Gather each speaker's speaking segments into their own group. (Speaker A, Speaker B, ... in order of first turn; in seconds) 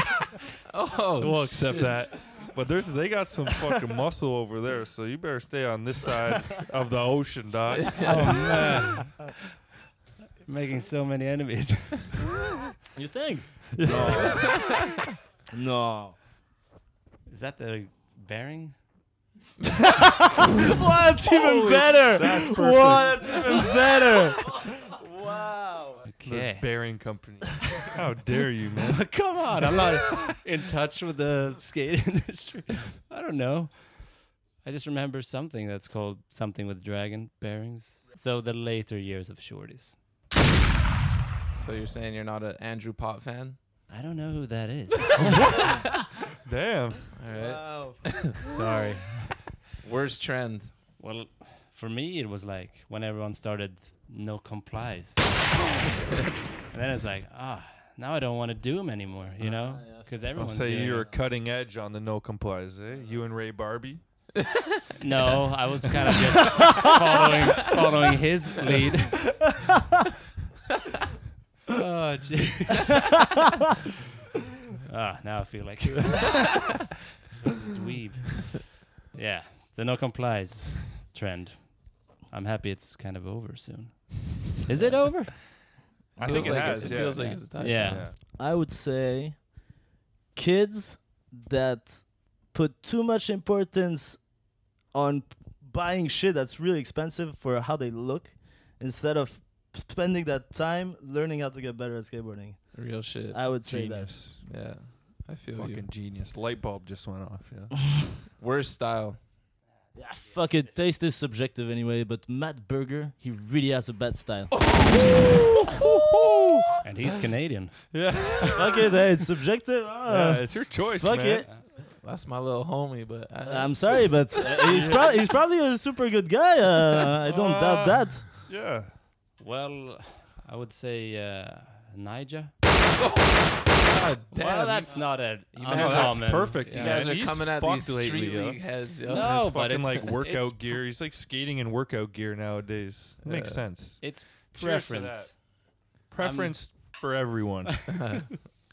Speaker A: 0.7-2.2, 8.0-8.5, 41.0-43.6, 47.1-48.1, 49.8-50.7, 84.8-85.6, 86.2-88.1, 102.7-103.7, 104.4-105.9, 108.4-109.2, 114.5-115.3, 122.0-124.3, 132.9-139.6, 143.2-143.7, 148.0-148.3
Speaker B: 1.2-9.1, 13.8-14.8, 22.1-23.5, 26.2-29.1, 46.5-47.1, 60.3-64.2, 86.2-88.1, 103.6-104.4, 105.5-107.7, 115.8-116.6, 117.9-118.6, 120.1-121.5, 124.7-125.1, 127.2-128.9, 135.6-145.4, 146.1-148.2
Speaker C: 8.0-9.2, 10.4-12.2, 17.3-18.8, 21.3-22.1, 26.1-27.1, 28.9-40.0, 43.9-45.8, 48.5-49.6, 51.0-55.6, 56.6-61.1, 65.0-69.5, 71.7-73.1, 74.9-76.8, 77.4-85.5, 86.3-88.1, 116.8-118.4, 129.4-132.6, 134.3-137.3, 139.1-140.8, 144.0-145.5, 146.2-147.1
Speaker D: 12.9-14.8, 15.5-16.2, 20.6-26.1, 47.4-48.2, 59.4-60.1, 86.2-86.5, 88.2-89.8, 90.3-104.3, 110.0-114.5, 118.5-121.5, 123.4-128.4